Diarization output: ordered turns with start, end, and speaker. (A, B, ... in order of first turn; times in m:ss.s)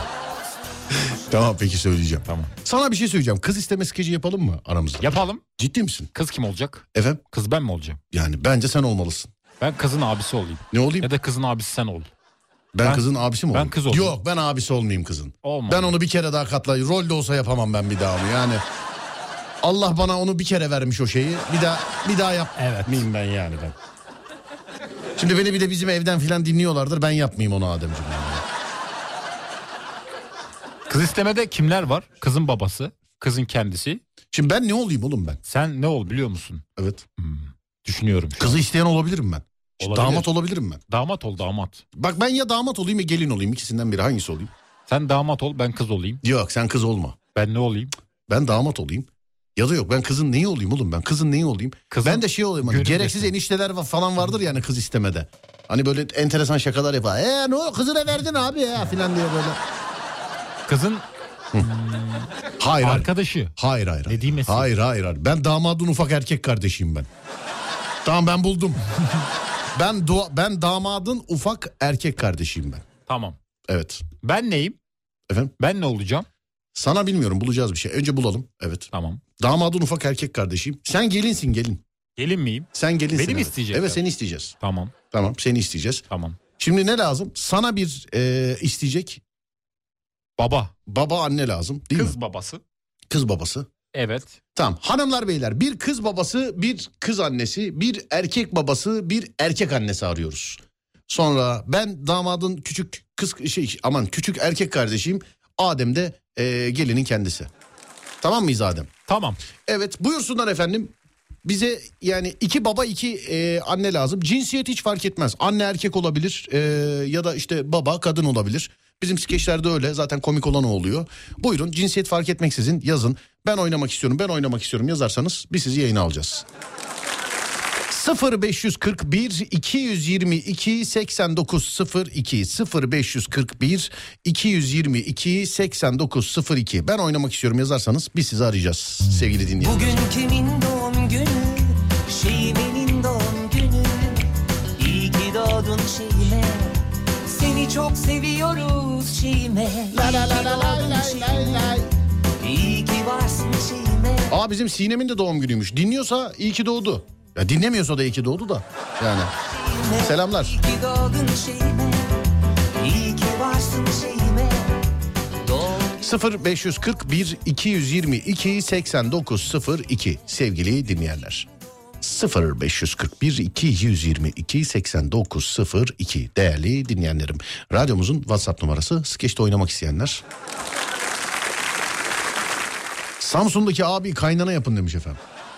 0:01.2-0:06.1 A
0:02.2-0:02.5 B
0:05.0-0:05.4 B
0:06.1-0:08.0 B
0:06.9-0:07.2 A
0:08.1-0:09.3 A
0:09.6-0:12.1 B
0:10.7-0:11.1 A
0:12.7-0:18.6 A
0:12.8-0:14.2 B
0:15.4-0:16.0 B
0:19.6-0:23.8 A
0:22.6-0:23.0 B
0:25.2-0:28.4 A
0:30.9-0:34.0 B
0:34.3-0:35.4 A
0:35.4-0:36.6 B
0:36.8-0:37.0 A
0:37.2-0:38.6 B
0:38.4-0:40.8 A
0:39.8-0:40.3 B
0:40.9-0:41.8 B
0:41.9-0:44.5 A
0:44.9-0:46.2 B
0:46.2-0:47.2 A
0:47.3-0:47.9 B
0:48.3-0:59.6 A
0:51.9-0:53.3 B
1:00.6-1:01.0 B
1:01.6-1:03.5 B
1:02.6-1:07.1 A
1:04.1-1:04.7 B
1:08.0-1:08.8 A
1:09.7-1:12.8 A
1:13.1-1:13.4 B
1:13.7-1:14.0 A
1:14.2-1:14.8 B
1:15.6-1:16.3 B
1:16.7-1:18.9 A
1:18.9-1:19.2 B
1:19.4-1:21.8 A
1:22.2-1:24.0 B
1:22.7-1:24.5 A
1:24.6-1:24.9 B
1:25.1-1:26.0 A
1:26.1-1:26.4 B
1:26.6-1:29.2 A
1:30.4-1:30.7 B
1:30.9-1:32.2 A
1:31.9-1:32.6 B
1:33.1-1:33.7 A
1:33.9-1:34.4 B
1:34.5-1:47.5 A
1:48.2-1:48.9 A
1:49.1-1:49.4 B
1:49.6-1:50.9 A
1:51.4-2:06.4 A
2:07.9-2:20.0 A
2:19.6-2:31.8 C
2:29.9-2:31.9 A
2:32.4-2:34.3 C
2:34.3-2:39.3 A
2:39.4-2:42.2 C
2:40.0-2:40.6 A
2:42.8-2:44.8 C
2:45.4-2:46.2 C
2:46.0-2:51.5 A
2:52.0-3:00.2 A
3:03.2-3:05.2 A